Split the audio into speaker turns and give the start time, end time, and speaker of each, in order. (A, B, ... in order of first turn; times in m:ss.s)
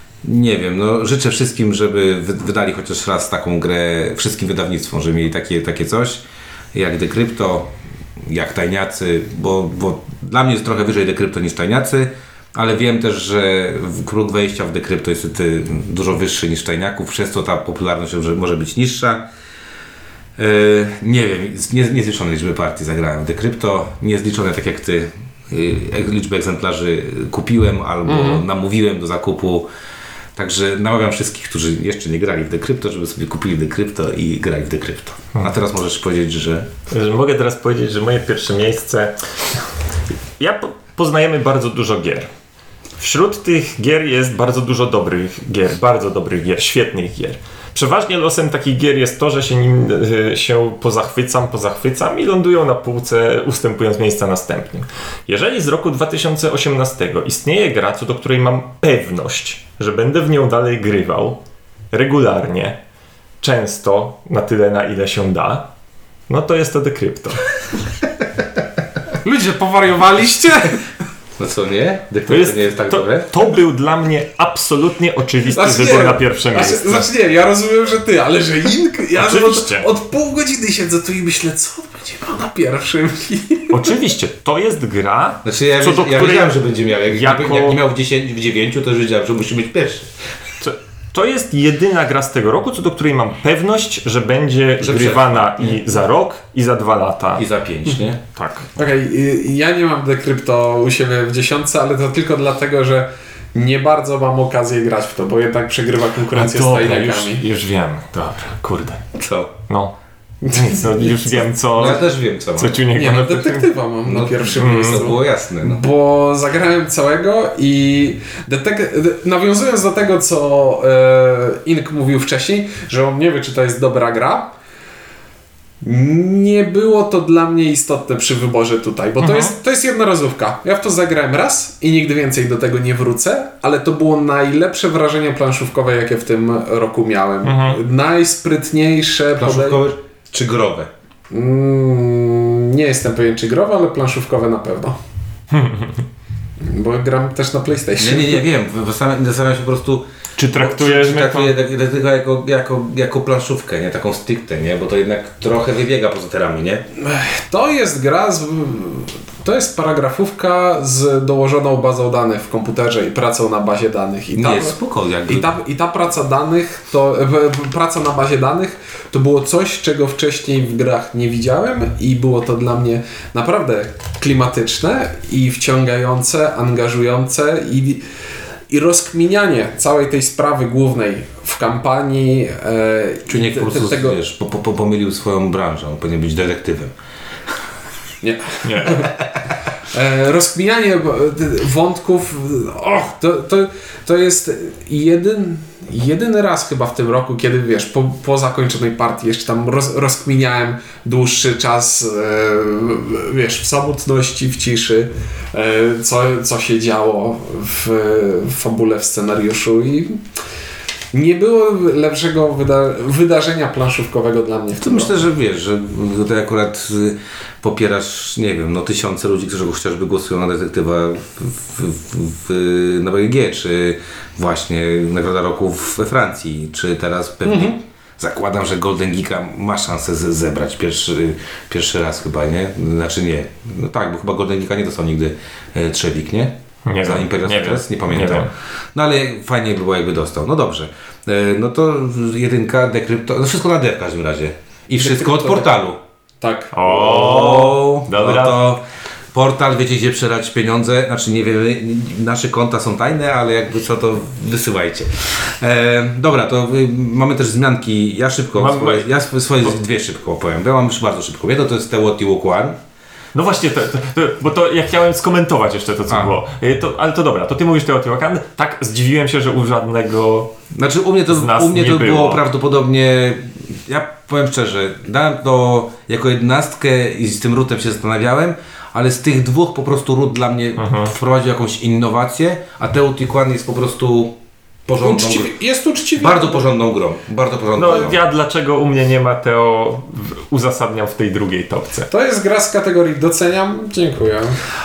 0:00.2-0:06.2 A
0:06.7-0:19.2 A
0:20.4-0:29.7 A
0:28.1-0:28.4 B
0:30.4-0:36.7 A
0:36.9-0:39.6 C
0:40.4-0:42.3 C
0:43.0-1:01.4 C
1:01.9-1:02.8 C
1:03.4-1:05.7 C
1:06.3-1:07.5 C
1:09.2-1:10.8 B
1:11.4-1:13.3 A
1:12.3-1:17.1 C
1:15.5-1:24.0 B
1:19.2-1:19.9 C
1:23.7-1:27.8 C
1:25.4-1:30.1 A
1:30.6-1:37.4 C
1:34.8-1:35.8 A
1:37.4-1:38.2 A
1:38.4-1:38.7 C
1:38.8-1:47.4 B
1:46.3-1:49.0 C
1:49.1-1:49.5 A
1:49.7-1:53.7 C
1:50.5-1:51.5 B
1:51.7-1:52.8 A
1:52.9-2:04.6 B
1:54.1-1:55.8 A
1:54.6-1:55.1 C
2:05.8-2:19.8 B
2:09.2-2:09.6 C
2:17.4-2:17.8 C
2:19.4-2:20.9 A
2:21.3-2:25.0 B
2:25.5-2:26.0 C
2:26.6-2:28.4 B
2:28.0-2:36.9 A
2:30.4-2:31.5 C
2:37.0-2:44.8 B
2:44.4-2:45.5 A
2:45.3-2:58.0 B
2:58.7-3:04.2 B
3:03.3-3:06.9 A
3:08.2-3:09.1 B
3:08.6-3:09.1 C
3:09.9-3:30.2 B
3:31.1-3:35.2 B
3:34.8-4:06.0 A
3:47.4-3:47.8 B
3:56.9-3:58.5 C
4:05.0-4:05.7 B
4:06.4-4:07.0 B
4:06.7-4:08.7 C
4:06.8-4:08.8 A
4:09.3-4:22.8 A
4:18.6-4:19.1 C
4:23.3-4:30.5 C
4:30.7-4:45.5 A
4:31.3-4:32.4 C
4:40.8-4:41.1 C
4:45.0-4:46.7 B
4:46.2-4:48.2 A
4:47.8-4:52.1 C
4:52.1-4:54.6 B